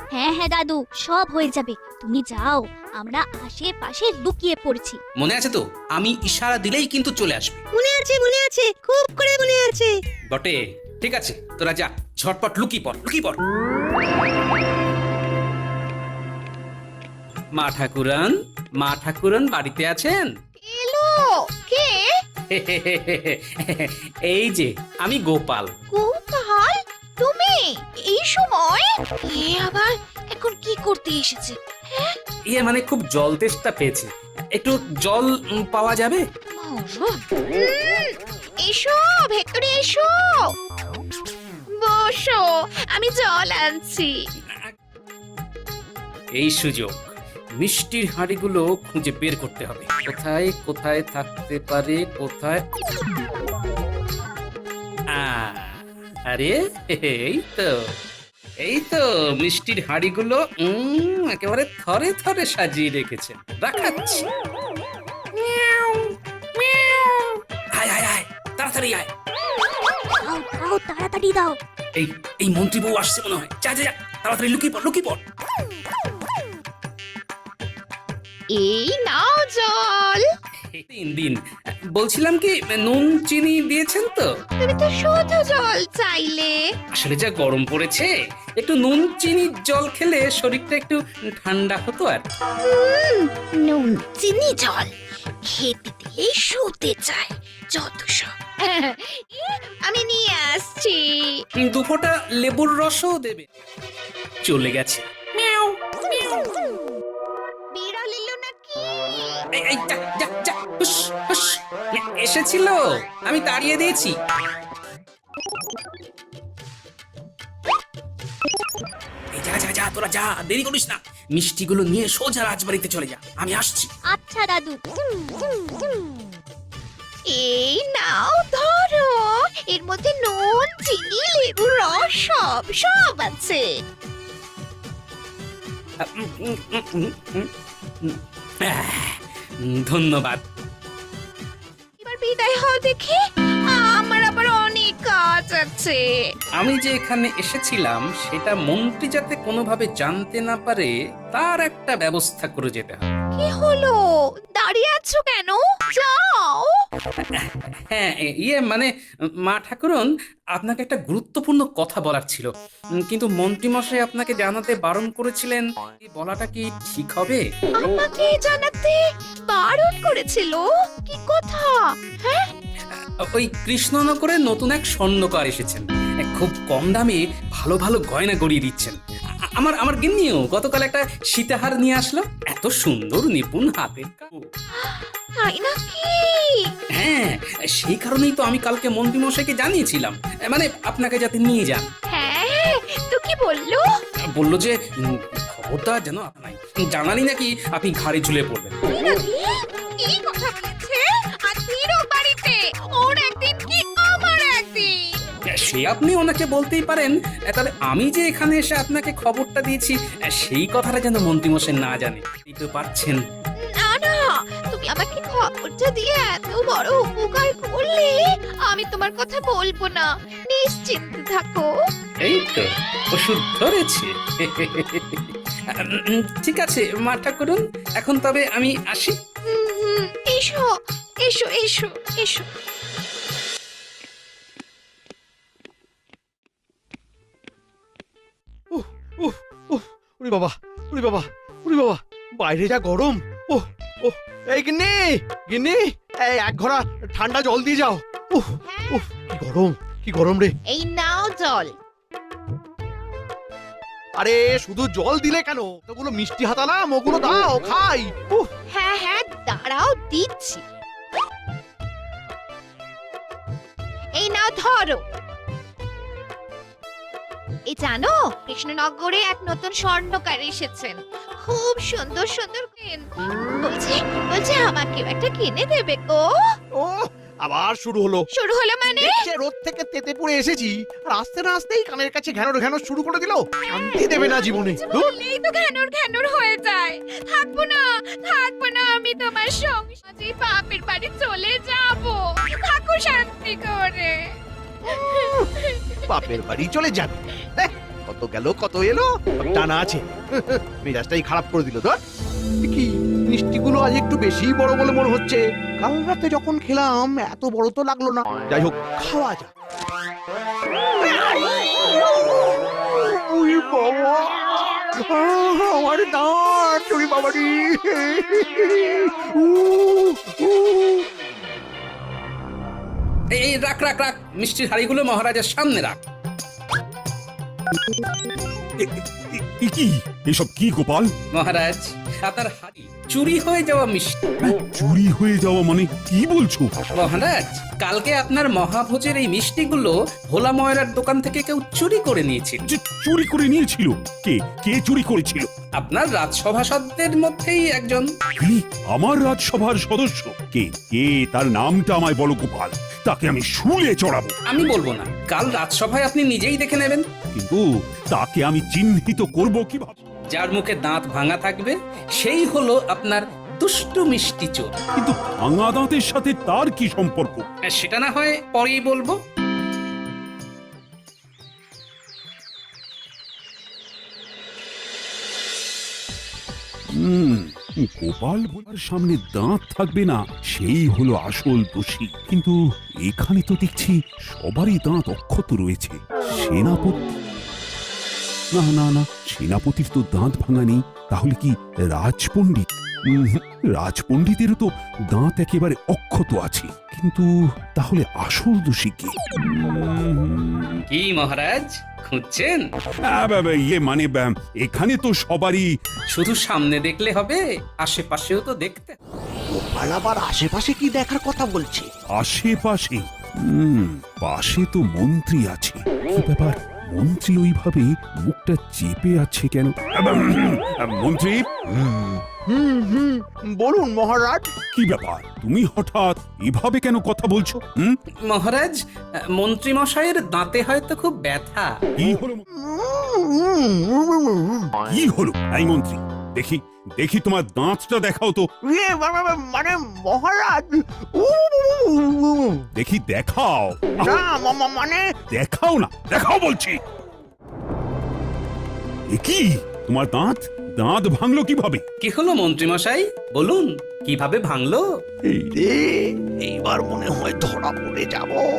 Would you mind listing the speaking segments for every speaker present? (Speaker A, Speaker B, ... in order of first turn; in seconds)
Speaker A: 0.1-5.0, 70.2-71.6, 124.1-124.8
Speaker B: 5.2-7.6, 10.3-13.4, 17.6-20.3, 22.5-25.7, 32.5-36.2, 46.4-47.0, 47.6-52.6, 55.1-57.9, 58.6-64.3, 67.8-69.1, 72.0-75.2, 80.7-81.4, 81.9-84.2, 86.9-92.2, 101.6-103.5, 104.4-105.7, 109.6-114.1, 119.3-123.9, 136.0-137.5, 138.0-140.4, 146.6-153.1, 157.4-158.9, 159.5-162.5, 163.0-167.4, 173.3-179.0, 179.6-184.4, 187.0-191.9, 194.3-198.8, 205.5-213.2, 222.2-229.2, 323.3-326.0, 331.3-334.3, 336.9-342.6, 345.8-348.1, 354.5-357.0, 360.3-364.8, 367.7-369.2, 400.9-402.6, 406.1-409.0, 428.3-428.7, 429.4-431.7, 452.0-454.8
Speaker C: 7.8-9.9
Speaker D: 20.6-22.1, 25.9-32.2, 36.6-40.5, 41.8-44.1, 66.8-67.3, 78.5-80.2, 84.6-86.6, 92.6-94.9, 95.4-101.4, 106.1-106.5, 107.7-109.2, 127.3-133.7, 142.0-146.1, 153.4-154.0, 154.6-156.7, 167.8-172.5, 184.8-186.6, 192.1-193.9, 198.9-205.0, 213.6-221.7, 229.5-230.7, 231.2-232.5, 248.6-249.0, 250.7-251.7, 258.7-260.6, 264.1-265.0, 267.7-273.1, 273.6-276.6, 278.3-279.2, 283.8-294.2, 294.9-296.3
Speaker E: 238.7-245.8, 246.4-250.5, 254.2-258.4, 277.5-278.2, 279.0-285.1, 296.1-300.0, 300.6-302.0, 302.6-309.5, 311.0-314.3, 315.0-321.0, 409.6-411.9, 421.8-424.4, 432.6-434.7, 438.7-440.6, 441.2-442.6, 444.0-445.0, 455.3-458.4
Speaker F: 328.8-331.1, 334.4-336.7, 342.6-345.5, 348.4-354.3, 357.3-357.6, 358.1-360.0, 365.0-367.5, 376.9-382.5, 383.1-387.1, 388.6-397.2, 397.8-400.8, 403.1-405.6, 412.2-421.4, 424.7-427.9, 432.0-432.4, 434.8-438.5, 442.7-444.2, 445.3-446.8, 449.1-451.8